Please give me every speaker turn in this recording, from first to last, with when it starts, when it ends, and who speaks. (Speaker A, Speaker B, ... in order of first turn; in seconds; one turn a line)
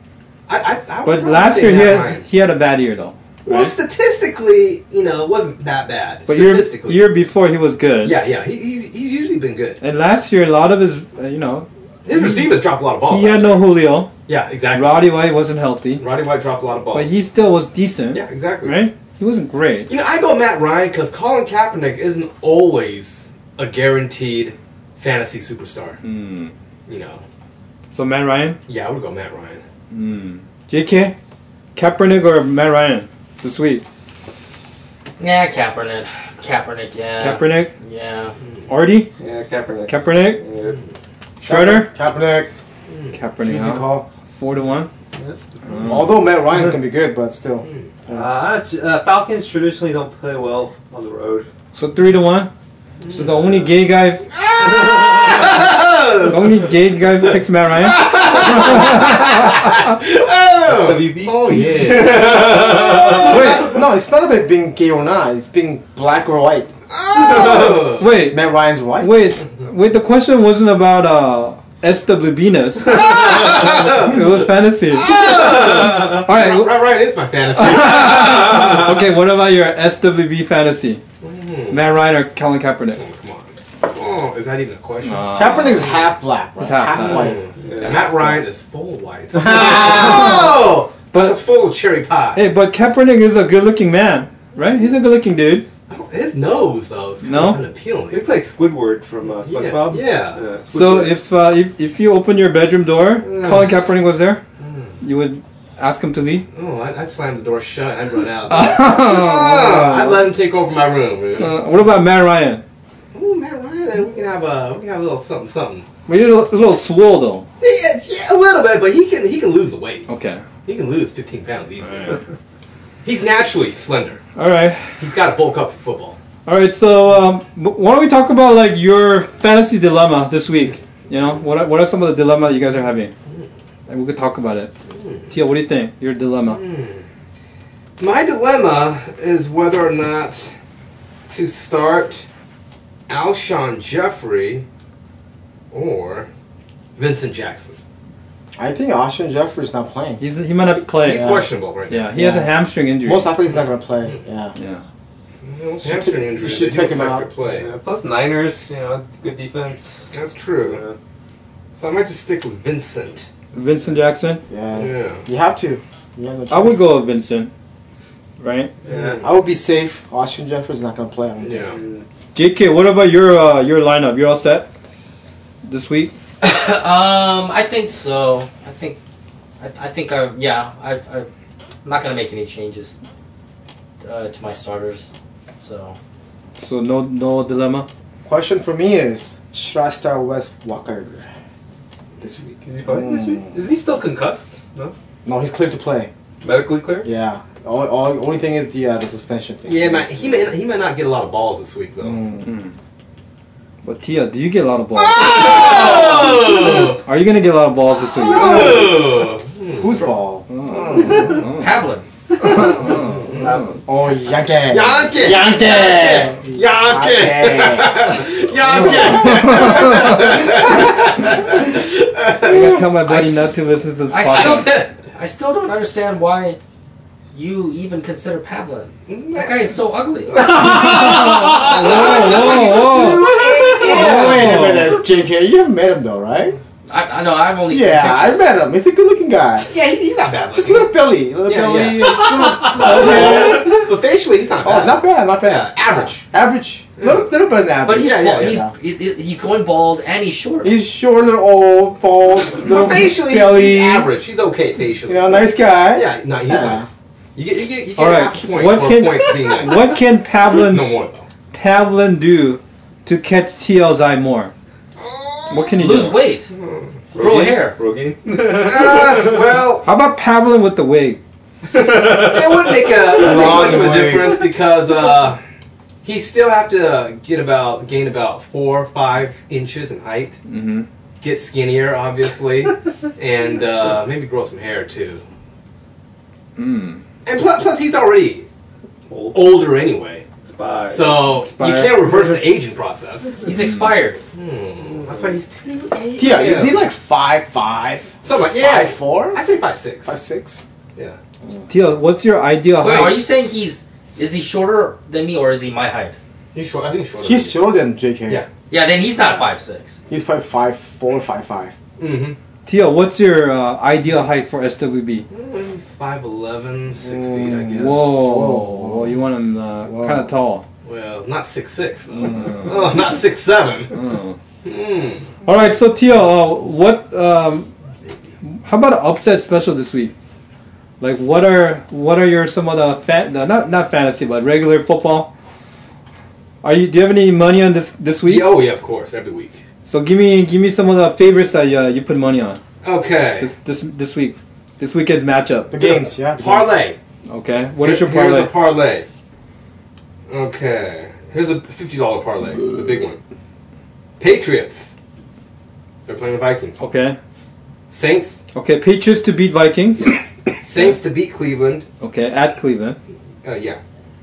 Speaker A: 0.5-2.3
Speaker B: 1.0-3.7
Speaker A: 3.5-7.2
Speaker B: 6.2-8.2
Speaker A: 8.0-9.8
Speaker B: 9.8-14.1
Speaker A: 12.0-13.7
Speaker A: 14.2-15.3
Speaker B: 14.7-16.0
Speaker A: 16.0-17.2
Speaker B: 16.9-19.9
Speaker A: 18.1-18.9
Speaker A: 19.9-26.0
Speaker B: 26.0-26.5
Speaker A: 26.9-27.2
Speaker B: 27.9-28.6
Speaker A: 28.6-29.6
Speaker B: 29.9-31.1
Speaker B: 31.7-33.8
Speaker C: 35.2-38.3
Speaker B: 37.2-37.7
Speaker B: 38.7-39.1
Speaker D: 39.2-40.8
Speaker B: 39.9-40.4
Speaker B: 41.4-41.9
Speaker E: 41.4-42.5
Speaker A: 42.9-43.1
Speaker B: 43.1-44.9
Speaker E: 43.4-44.1
Speaker B: 45.7-46.3
Speaker E: 45.9-48.3
Speaker D: 48.1-51.5
Speaker B: 51.7-52.5
Speaker B: 53.1-54.2
Speaker A: 54.3-56.7
Speaker B: 56.2-59.3
Speaker A: 57.7-63.7
Speaker D: 60.6-63.5
Speaker B: 63.2-63.7
Speaker E: 63.2-66.7
Speaker A: 66.9-68.1
Speaker B: 68.0-76.8
Speaker E: 68.3-69.2
Speaker A: 72.9-74.2
Speaker A: 74.9-78.9
Speaker B: 77.5-81.0
Speaker A: 81.2-81.9
Speaker B: 81.7-83.0
Speaker A: 82.9-86.0
Speaker B: 85.0-85.9
Speaker E: 85.3-88.0
Speaker B: 86.6-87.4
Speaker A: 87.1-92.5
Speaker D: 87.6-88.1
Speaker E: 89.4-90.1
Speaker B: 89.9-90.3
Speaker B: 91.1-91.4
Speaker B: 92.3-95.7
Speaker A: 95.9-98.3
Speaker B: 97.2-97.6
Speaker D: 98.1-101.2
Speaker A: 99.4-100.4
Speaker B: 100.7-104.4
Speaker A: 103.2-103.8
Speaker A: 104.6-105.0
Speaker B: 105.0-106.5
Speaker A: 106.5-111.7
Speaker B: 108.5-110.3
Speaker B: 111.3-112.6
Speaker A: 113.1-115.8
Speaker B: 116.1-117.5
Speaker A: 117.6-120.1
Speaker B: 120.1-120.4
Speaker A: 120.6-122.2
Speaker A: 123.0-124.2
Speaker B: 124.3-125.0
Speaker A: 125.0-126.2
Speaker B: 126.5-133.1
Speaker B: 133.9-134.7
Speaker A: 134.9-135.3
Speaker B: 135.3-136.6
Speaker A: 136.4-137.0
Speaker A: 138.0-140.5
Speaker A: 141.3-142.2
Speaker A: 143.1-144.6
Speaker A: 145.7-146.3
Speaker A: 146.9-147.8
Speaker E: 148.6-150.2
Speaker B: 150.2-153.3
Speaker A: 150.9-152.1
Speaker E: 151.1-151.5
Speaker E: 152.1-154.5
Speaker B: 154.5-154.8
Speaker A: 155.4-157.7
Speaker E: 155.8-157.3
Speaker D: 157.5-160.0
Speaker A: 160.1-160.8
Speaker D: 160.6-161.0
Speaker A: 161.7-163.3
Speaker B: 163.5-164.4
Speaker E: 164.5-166.9
Speaker A: 164.8-165.3
Speaker B: 166.5-167.5
Speaker B: 168.4-168.7
Speaker D: 168.8-169.2
Speaker E: 168.9-171.7
Speaker A: 171.4-171.8
Speaker D: 171.6-172.0
Speaker B: 172.3-174.7
Speaker B: 175.6-176.1
Speaker C: 176.4-179.0
Speaker C: 179.6-181.3
Speaker C: 181.8-182.9
Speaker C: 184.0-185.9
Speaker B: 186.6-187.9
Speaker E: 188.2-191.3
Speaker E: 192.2-193.6
Speaker D: 192.6-194.9
Speaker E: 195.2-196.1
Speaker D: 196.4-197.1
Speaker E: 197.0-200.4
Speaker A: 199.7-202.4
Speaker E: 202.0-202.4
Speaker B: 202.4-202.7
Speaker B: 203.8-208.9
Speaker A: 204.9-207.0
Speaker A: 208.1-210.1
Speaker E: 208.3-209.0
Speaker E: 209.8-210.5
Speaker B: 210.5-211.7
Speaker C: 211.4-212.0
Speaker D: 212.5-212.8
Speaker B: 212.6-213.7
Speaker A: 213.1-213.4
Speaker D: 213.3-213.8
Speaker E: 213.8-219.9
Speaker A: 214.7-222.8
Speaker B: 219.0-220.2
Speaker B: 222.4-224.8
Speaker C: 223.0-226.6
Speaker A: 224.3-224.9
Speaker C: 227.3-231.0
Speaker A: 229.1-229.8
Speaker A: 230.3-234.6
Speaker B: 230.4-235.0
Speaker E: 233.6-236.6
Speaker C: 236.9-238.5
Speaker E: 237.7-239.7
Speaker A: 239.6-240.9
Speaker E: 240.5-243.8
Speaker A: 241.4-246.3
Speaker E: 244.6-248.7
Speaker A: 247.0-247.2
Speaker C: 247.8-250.8
Speaker A: 247.9-248.6
Speaker E: 250.6-254.0
Speaker A: 252.6-261.3
Speaker B: 253.8-254.0
Speaker E: 255.1-256.9
Speaker B: 257.9-261.0
Speaker B: 261.5-264.5
Speaker A: 265.0-265.9
Speaker B: 265.5-266.2
Speaker C: 265.8-266.5
Speaker D: 267.1-269.4
Speaker C: 267.1-267.8
Speaker A: 268.5-269.9
Speaker B: 269.8-271.2
Speaker D: 271.7-272.9
Speaker A: 271.9-275.4
Speaker E: 273.1-274.4
Speaker A: 276.0-280.4
Speaker B: 280.5-280.9
Speaker A: 281.2-285.2
Speaker B: 286.6-287.0
Speaker A: 287.2-288.5
Speaker D: 289.1-289.4
Speaker A: 289.3-290.2
Speaker D: 290.4-291.2
Speaker A: 290.9-293.4
Speaker B: 291.3-292.2
Speaker C: 293.4-294.2
Speaker B: 293.5-294.0
Speaker A: 294.3-296.9
Speaker D: 294.8-295.4
Speaker E: 296.2-299.4
Speaker A: 298.2-300.2
Speaker E: 300.0-300.6
Speaker B: 301.7-303.2
Speaker C: 302.8-306.1
Speaker A: 306.5-307.6
Speaker E: 307.2-308.4
Speaker C: 308.7-310.0
Speaker E: 310.1-311.7
Speaker A: 312.0-312.4
Speaker B: 312.6-315.3
Speaker A: 315.3-318.1
Speaker E: 317.0-319.2
Speaker B: 317.7-320.6
Speaker E: 319.8-320.3
Speaker A: 320.8-324.0
Speaker B: 322.2-322.9
Speaker B: 323.9-324.4
Speaker A: 324.6-325.3
Speaker B: 325.4-327.7
Speaker B: 328.4-330.1
Speaker B: 331.0-335.3
Speaker B: 336.6-338.5
Speaker A: 338.2-339.6
Speaker B: 339.9-342.6
Speaker A: 342.8-343.5
Speaker B: 343.4-345.8
Speaker E: 345.7-346.7
Speaker A: 345.8-347.0
Speaker B: 347.3-348.5
Speaker A: 347.8-349.1
Speaker A: 350.3-353.2
Speaker A: 354.2-354.9
Speaker A: 356.1-356.8
Speaker B: 356.8-357.2
Speaker A: 357.9-358.4
Speaker B: 358.5-360.2
Speaker A: 360.1-361.9
Speaker B: 362.0-363.0
Speaker A: 363.4-363.8